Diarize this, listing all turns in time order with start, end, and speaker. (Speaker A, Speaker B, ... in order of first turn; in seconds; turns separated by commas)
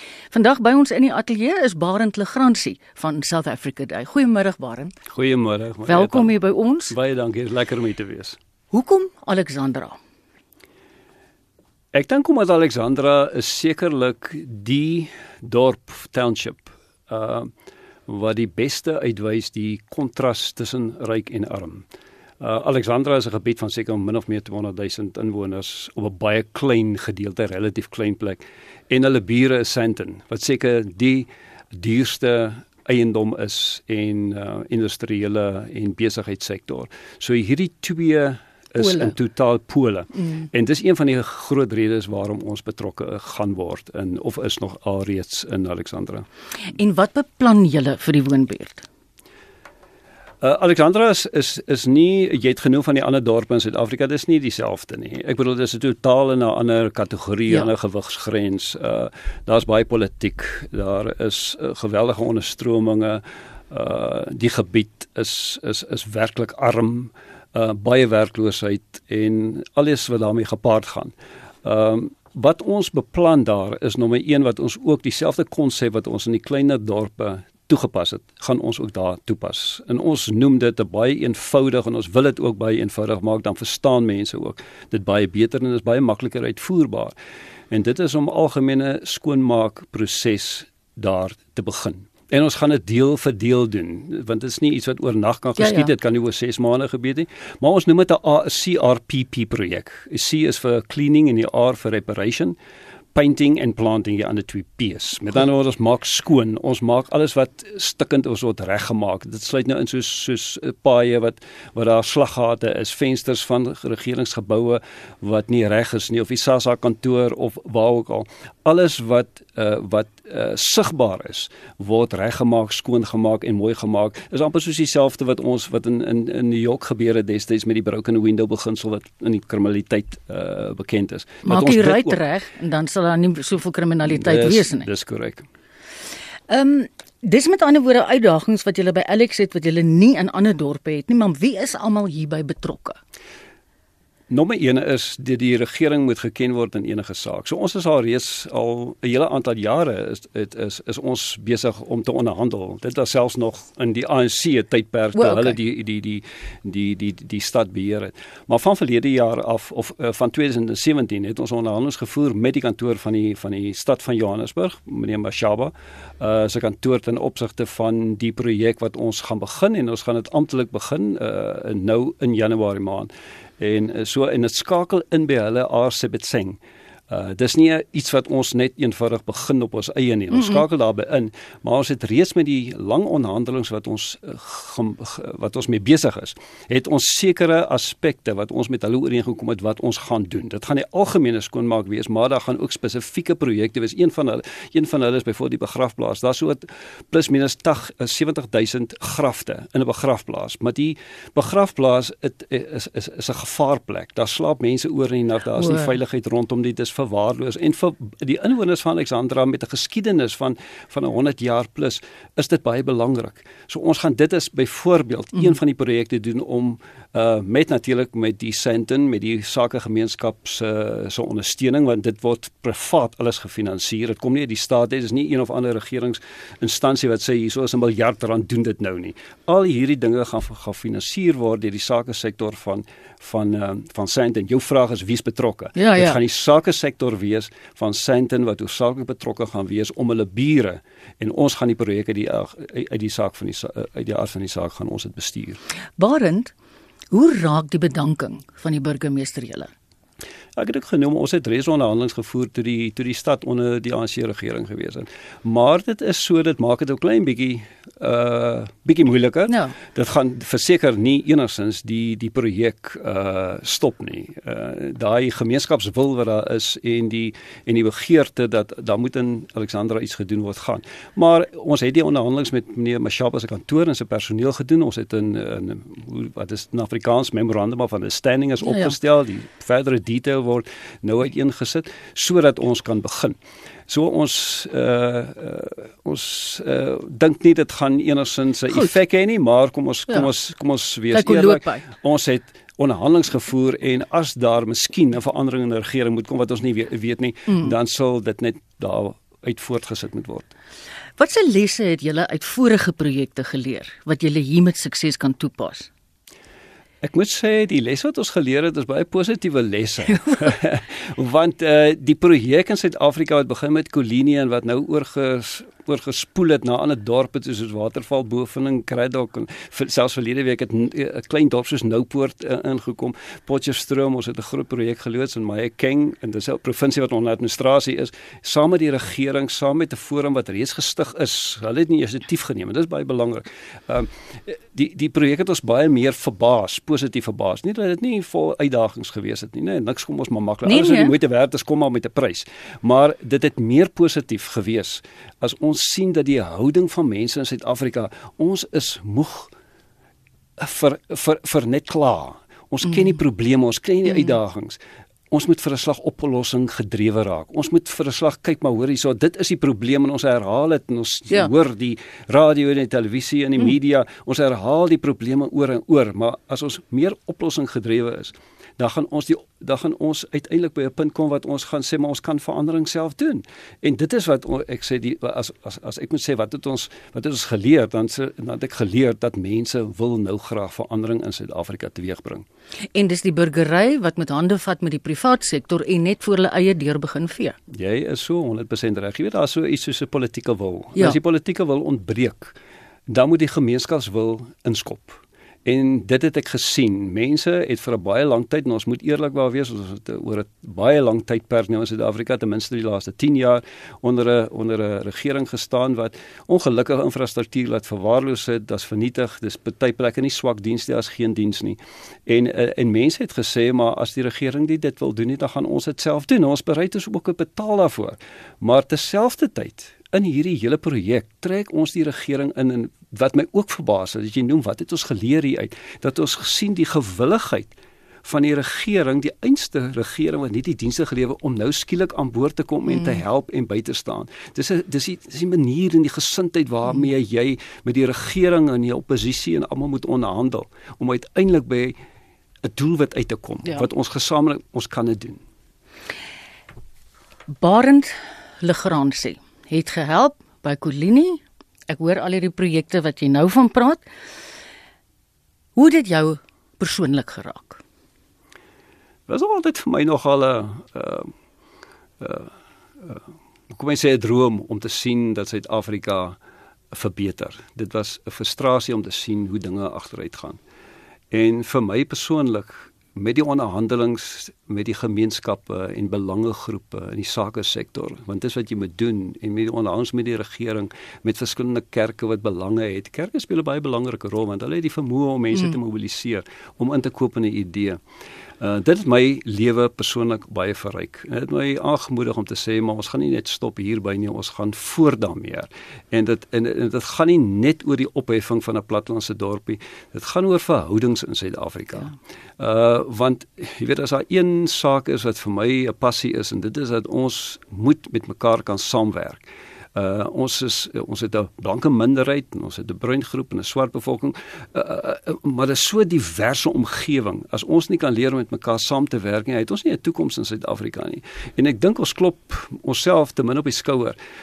Speaker A: 0.3-4.9, Speaker B: 5.1-6.4, Speaker A: 5.8-6.9, Speaker B: 6.9-8.4, Speaker A: 8.7-10.0, Speaker B: 11.9-17.5, Speaker B: 18.1-21.9, Speaker B: 22.4-46.2, Speaker A: 38.8-39.1, Speaker A: 46.7-48.9, Speaker B: 50.4-87.1, Speaker B: 87.7-102.5, Speaker A: 95.6-95.9, Speaker B: 103.1-132.2, Speaker A: 131.4-134.9, Speaker B: 134.1-135.4, Speaker A: 136.5-143.0, Speaker B: 144.3-245.6, Speaker A: 155.2-155.5, Speaker A: 205.6-205.9, Speaker A: 235.8-236.2, Speaker A: 246.0-246.5, Speaker A: 247.1-249.7, Speaker B: 250.6-283.4, Speaker A: 259.5-259.7, Speaker A: 278.6-278.9, Speaker B: 283.9-300.5, Speaker A: 291.1-291.9, Speaker A: 301.2-305.9, Speaker B: 307.0-349.5, Speaker A: 340.6-341.1, Speaker B: 350.6-354.8, Speaker B: 355.3-382.4, Speaker A: 382.9-387.6, Speaker B: 387.7-392.6, Speaker B: 393.1-427.7, Speaker B: 428.2-442.0, Speaker B: 442.6-445.4, Speaker A: 447.5-454.0, Speaker A: 455.8-457.8, Speaker B: 459.3-461.3, Speaker B: 462.2-466.4, Speaker B: 466.9-470.6, Speaker B: 471.3-488.0, Speaker B: 488.6-524.2